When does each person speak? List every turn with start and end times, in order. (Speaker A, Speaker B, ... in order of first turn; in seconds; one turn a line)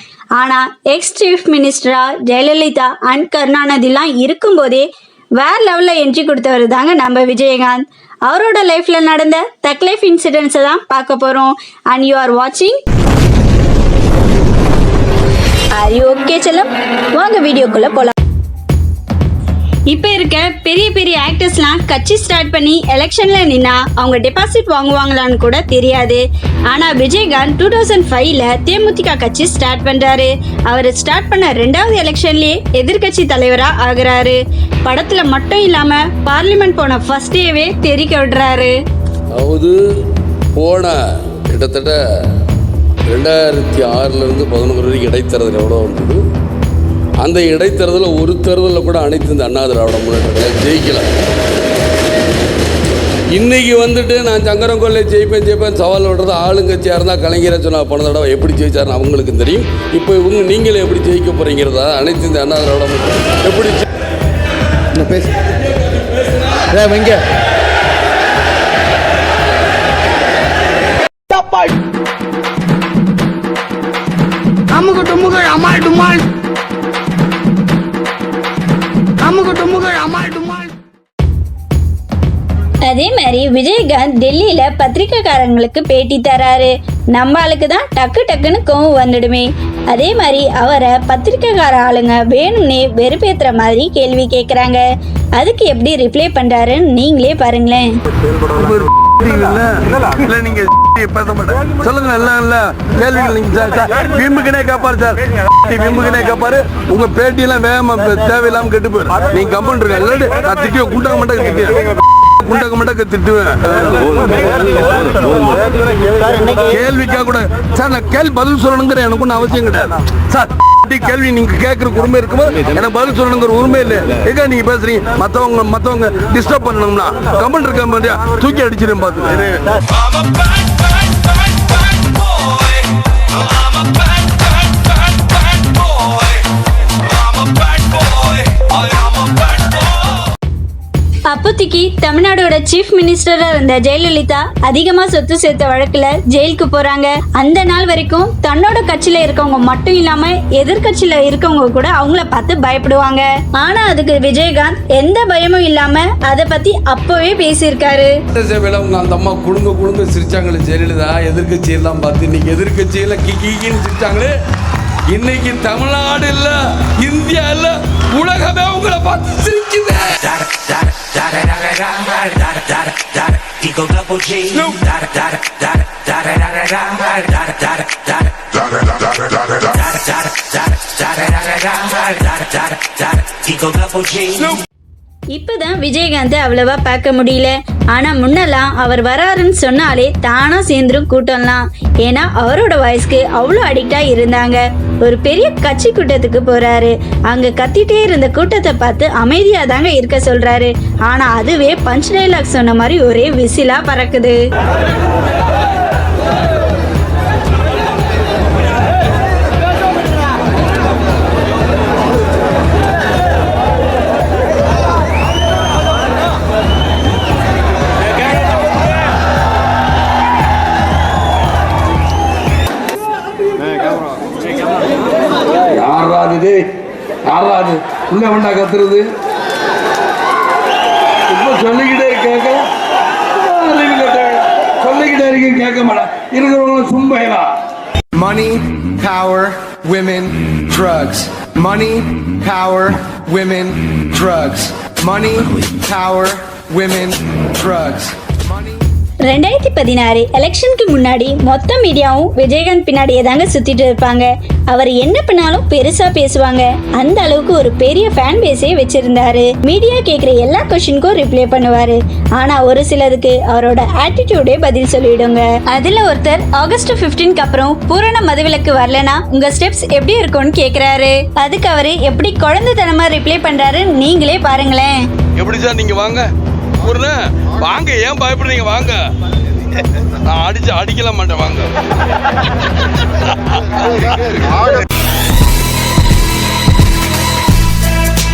Speaker A: 0.4-12.8
Speaker A: 15.8-18.1
Speaker A: 19.9-38.8
Speaker B: 39.3-39.8
Speaker B: 40.5-42.0
Speaker B: 43.1-46.2
Speaker B: 47.2-51.1
Speaker B: 53.3-63.9
Speaker B: 65.8-66.8
Speaker C: 74.7-76.2
Speaker C: 79.2-80.7
Speaker A: 82.9-94.8
Speaker A: 95.4-97.9
Speaker D: 98.6-111.8
Speaker B: 101.9-102.6
Speaker B: 104.6-105.0
Speaker B: 105.8-110.2
Speaker D: 112.4-113.9
Speaker B: 112.8-113.2
Speaker D: 116.7-129.6
Speaker A: 141.3-158.2
Speaker B: 158.3-164.3
Speaker B: 165.1-170.6
Speaker E: 170.4-184.6
Speaker B: 171.1-172.0
Speaker A: 185.3-204.4
Speaker B: 225.7-226.7
Speaker B: 227.3-229.0
Speaker B: 231.3-232.6
Speaker B: 233.3-237.4
Speaker F: 238.1-248.8
Speaker A: 249.3-275.1
Speaker B: 275.4-279.1
Speaker B: 279.8-281.7
Speaker B: 283.5-283.9